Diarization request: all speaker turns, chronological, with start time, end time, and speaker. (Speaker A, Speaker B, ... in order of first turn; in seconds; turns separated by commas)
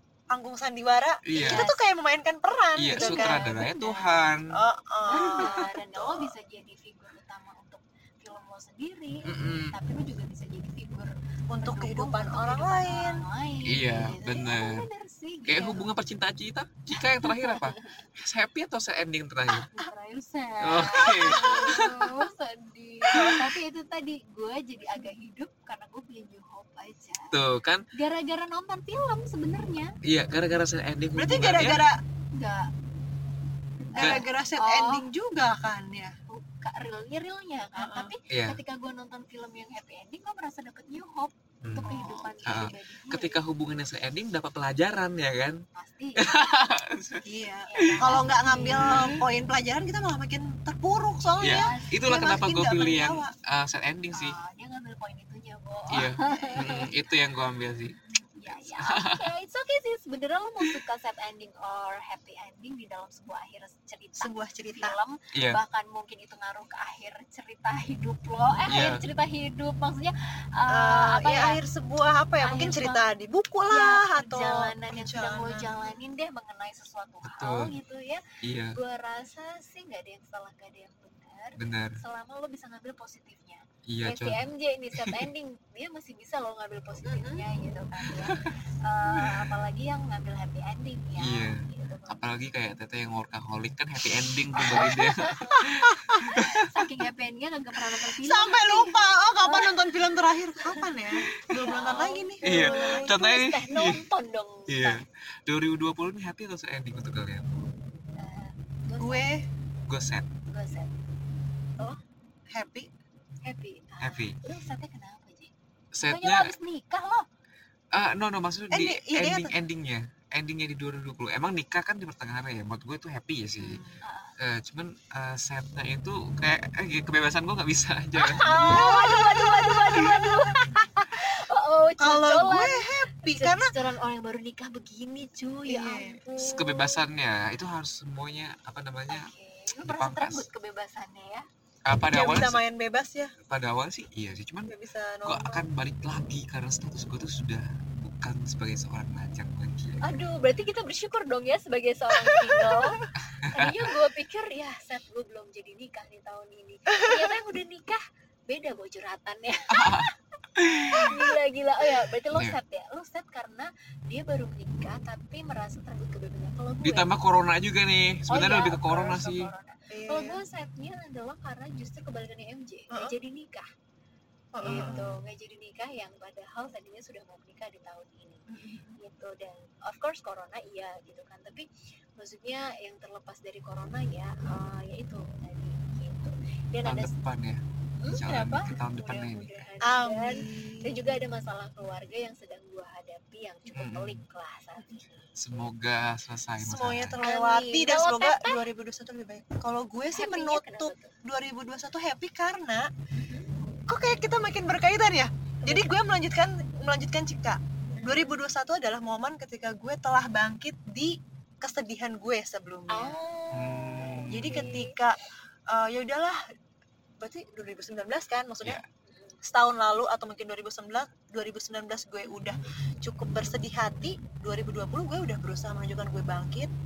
Speaker A: 0.3-6.3, Speaker B: 1.2-1.7, Speaker C: 1.3-1.7, Speaker B: 2.8-4.6, Speaker C: 3.0-4.1, Speaker C: 5.1-15.9, Speaker B: 9.3-9.8, Speaker A: 11.5-13.2, Speaker B: 13.7-14.9, Speaker B: 15.5-19.7, Speaker C: 17.0-18.1, Speaker C: 19.7-27.3, Speaker B: 20.6-22.0, Speaker A: 20.9-22.0, Speaker A: 23.1-23.5, Speaker B: 27.3-27.8, Speaker C: 27.9-29.9, Speaker B: 30.1-31.9, Speaker A: 31.1-32.0, Speaker C: 32.4-32.7, Speaker C: 33.9-35.1, Speaker A: 34.0-36.1, Speaker B: 34.0-34.2, Speaker C: 36.3-43.4, Speaker A: 37.8-38.1, Speaker B: 38.3-38.6, Speaker B: 41.6-45.6, Speaker A: 41.8-42.7, Speaker C: 45.7-46.5, Speaker B: 46.2-49.2, Speaker A: 47.3-53.3, Speaker C: 47.6-49.3, Speaker B: 51.4-54.4, Speaker C: 51.4-52.1, Speaker C: 54.1-56.9, Speaker B: 55.9-59.2, Speaker C: 58.4-71.6, Speaker A: 64.2-65.0, Speaker B: 65.3-65.6, Speaker B: 68.7-69.0, Speaker A: 70.7-76.0, Speaker C: 72.4-73.0, Speaker C: 73.7-92.2, Speaker B: 77.2-77.7, Speaker B: 78.4-78.8, Speaker B: 81.6-82.0, Speaker B: 83.9-84.4, Speaker A: 87.0-87.5, Speaker B: 88.2-88.5, Speaker B: 91.2-96.7, Speaker C: 94.7-95.5, Speaker A: 95.7-96.3, Speaker C: 96.3-99.8, Speaker A: 98.2-103.2, Speaker C: 100.6-100.8, Speaker C: 101.6-105.0, Speaker B: 102.4-104.0, Speaker B: 104.7-107.5, Speaker C: 108.2-109.3, Speaker A: 109.0-109.5, Speaker B: 109.9-110.3, Speaker C: 110.5-110.9, Speaker A: 112.5-112.9, Speaker C: 113.4-115.5, Speaker B: 114.0-114.4, Speaker B: 115.9-116.5, Speaker C: 116.0-117.2, Speaker B: 117.9-123.8, Speaker A: 118.7-119.5, Speaker A: 123.6-124.0, Speaker C: 124.0-124.3, Speaker B: 124.4-128.5, Speaker C: 128.2-137.0, Speaker A: 128.5-130.5, Speaker A: 132.0-133.7, Speaker A: 135.7-136.3, Speaker B: 136.4-139.3, Speaker C: 139.1-141.4, Speaker B: 139.8-140.5, Speaker B: 141.9-142.6, Speaker A: 142.1-143.3, Speaker B: 143.5-144.7, Speaker A: 144.7-145.7, Speaker B: 145.2-150.0, Speaker C: 150.0-160.1, Speaker A: 152.2-153.1, Speaker B: 153.4-153.9, Speaker B: 159.7-161.2, Speaker C: 160.8-167.2, Speaker B: 162.3-162.6, Speaker B: 166.8-169.5, Speaker C: 168.3-173.7, Speaker A: 169.9-170.4, Speaker A: 174.5-175.0, Speaker B: 174.6-175.2, Speaker C: 174.6-178.4, Speaker A: 178.5-179.0, Speaker C: 179.0-187.1, Speaker B: 186.8-189.7, Speaker C: 188.0-195.3, Speaker A: 189.8-191.2, Speaker B: 193.7-194.2, Speaker B: 195.4-197.2, Speaker A: 196.6-202.9, Speaker C: 197.2-198.6, Speaker C: 200.1-201.1, Speaker C: 203.2-203.5, Speaker A: 203.9-213.2, Speaker C: 205.6-205.9, Speaker C: 212.9-214.9, Speaker B: 213.5-214.7, Speaker A: 214.3-215.2, Speaker A: 215.7-216.4, Speaker A: 217.2-218.8, Speaker C: 219.1-219.4, Speaker A: 219.5-226.7